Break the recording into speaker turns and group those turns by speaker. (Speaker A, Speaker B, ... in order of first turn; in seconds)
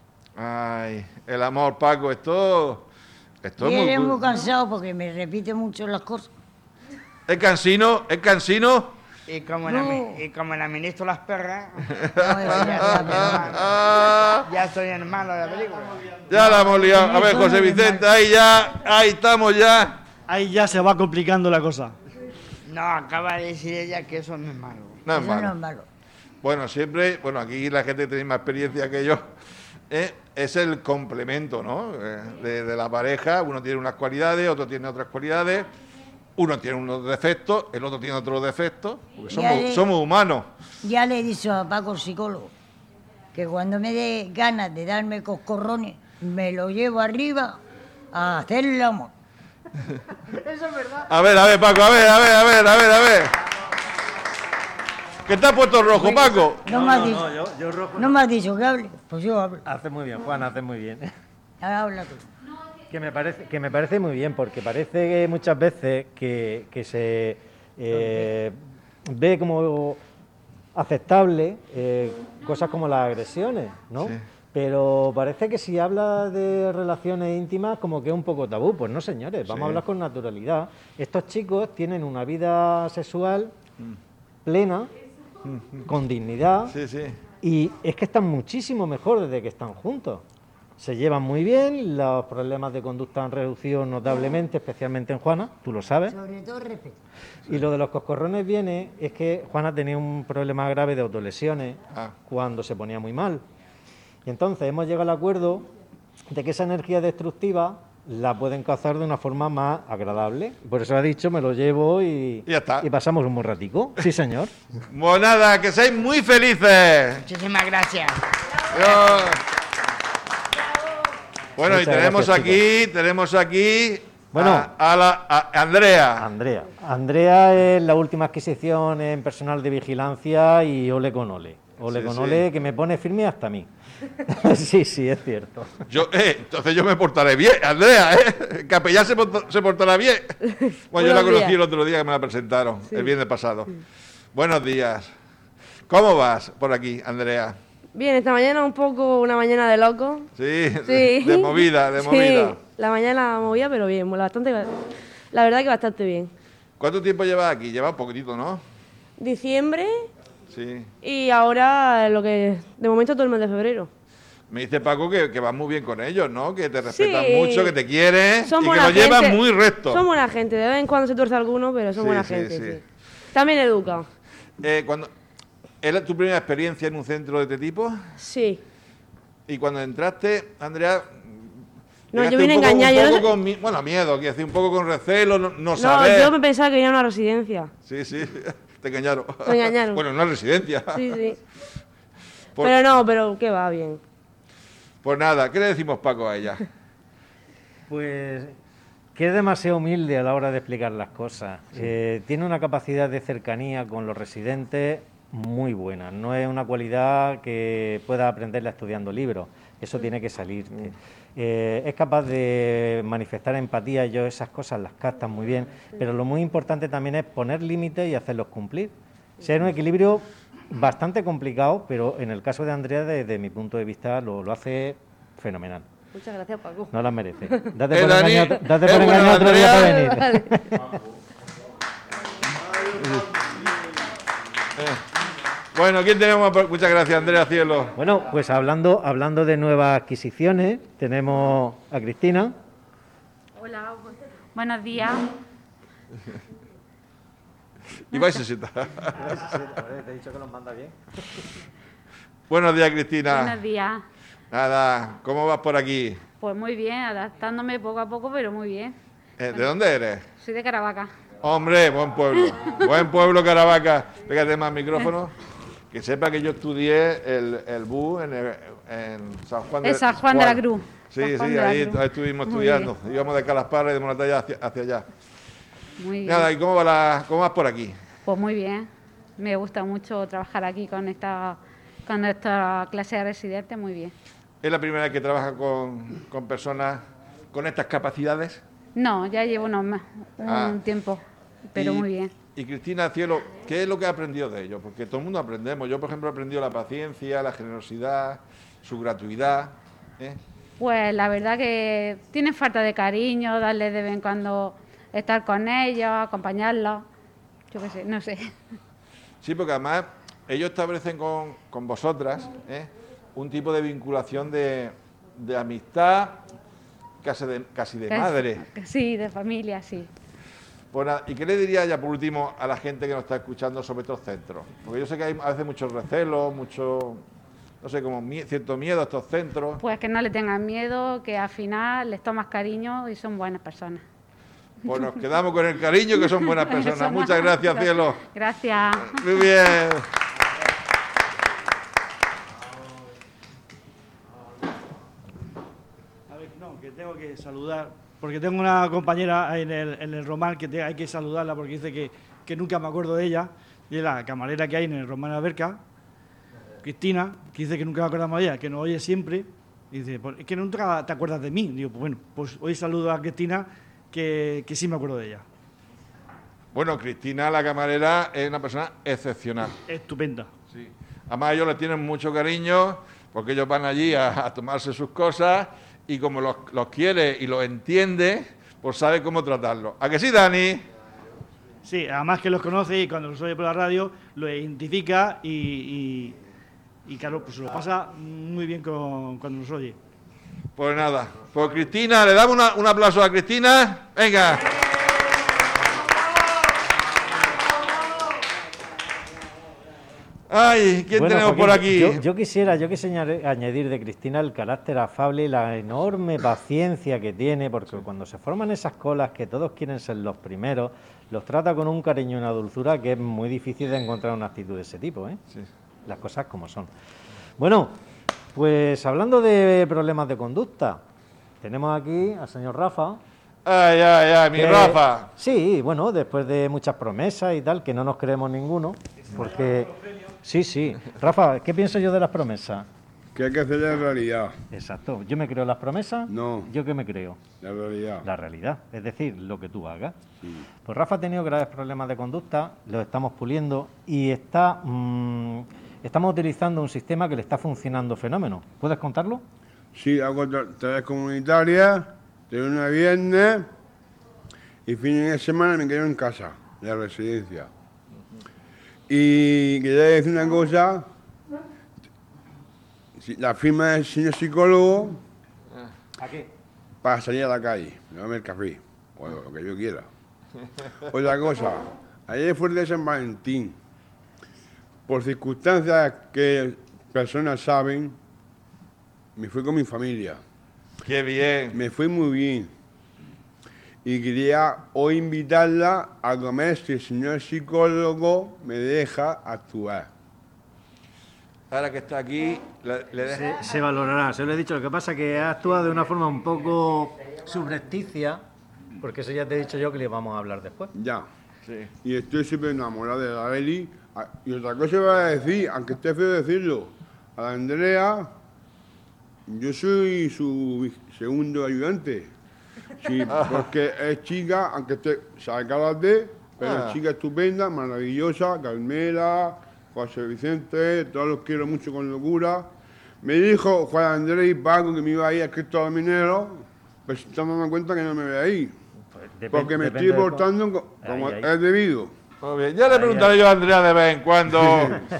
Speaker A: 0.4-2.9, 3.4-4.2, 7.3-8.9, 12.2-14.4, 16.3-20.0, 25.1-25.6, 26.4-29.2, 29.9-35.7, 36.4-40.5, 51.1-53.3, 55.2-56.6, 79.5-79.8, 86.7-87.2, 112.5-112.9, 114.9-117.2, 118.7-119.4, 121.6-126.2, 131.9-132.4, 135.9-140.4, 140.9-143.7, 144.3-145.1, 145.9-147.6, 150.4-152.6, 156.8-158.6, 160.5-160.9, 164.5-170.0, 171.9-172.8, 174.6-175.1, 175.8-177.9, 179.5-181.4, 182.1-186.4, 187.8-191.2, 195.0-196.6, 227.9-229.9, 235.8-237.9, 248.1-249.4, 252.5-253.6, 254.5-256.2, 259.4-260.2, 261.4-265.3, 265.9-275.1, 276.2-277.9, 284.6-288.6, 290.5-290.8, 291.8-300.4, 309.4-316.4, 317.2-318.6, 320.9-327.2, 327.8-329.8, 334.9-338.2, 339.1-340.1, 366.7-369.8, 370.7-380.9, 390.8-394.6, 400.5-402.2, 423.6-425.3, 481.0-481.8, 491.7-493.5, 516.6-517.0, 532.4-535.0
Speaker B: 3.6-6.3, 9.7-10.2, 12.2-13.7, 16.3-18.0, 25.1-25.9, 39.3-39.9, 40.8-42.5, 43.3-47.6, 48.1-49.1, 55.9-57.3, 58.0-59.6, 61.6-62.2, 96.1-97.0
Speaker C: 9.3-16.1, 22.6-25.0, 117.2-118.2
Speaker D: 20.3-21.9, 346.3-355.8, 356.8-365.4, 369.9-370.5, 381.8-386.4, 387.1-390.0
Speaker E: 56.7-58.1, 59.6-61.1, 62.9-68.6, 69.1-70.0, 70.8-83.5, 84.4-84.9, 85.9-86.8, 87.4-90.2, 90.8-96.2, 97.5-103.4, 104.2-105.7, 106.3-114.5, 121.6-122.6, 124.3-124.7, 126.2-133.7, 134.2-135.8, 197.9-198.5, 199.1-225.9, 226.9-230.8, 238.0-242.6, 249.2-250.9, 401.1-415.4, 416.1-416.9, 417.6-417.9, 418.6-421.0, 421.6-423.2, 424.6-432.9, 434.7-437.4, 438.2-440.2, 440.8-449.4, 466.2-466.5, 493.3-498.4, 499.0-500.9, 529.1-530.5, 531.0-531.5, 532.9-533.4
Speaker F: 140.9-141.6, 142.9-143.1, 147.9-150.3, 150.8-156.3, 159.2-160.1, 161.0-163.9, 166.8-167.8, 168.4-172.8, 173.3-174.1, 178.2-178.6, 182.1-183.3, 185.8-187.7, 189.4-190.0, 190.9-191.4, 192.6-194.0, 226.1-226.9, 229.1-230.6
Speaker G: 243.6-245.3, 248.1-248.4, 253.2-254.0, 256.4-258.9, 260.4-261.1, 269.8-272.9, 276.0-276.5, 278.2-284.1, 288.9-291.2, 291.7-292.3, 300.8-307.1, 307.7-308.4, 318.1-320.1, 329.8-334.0, 336.2-339.3
Speaker H: 433.3-434.5, 436.3-436.7, 437.6-438.3, 449.9-453.7, 454.9-457.7, 459.1-461.1, 463.2-465.2, 467.0-470.1, 471.1-473.8, 475.1-478.2, 479.4-480.4, 481.7-482.7, 484.0-490.1, 500.9-501.3, 502.0-508.3, 509.5-512.3, 513.0-522.7, 523.2-528.7, 529.5-532.1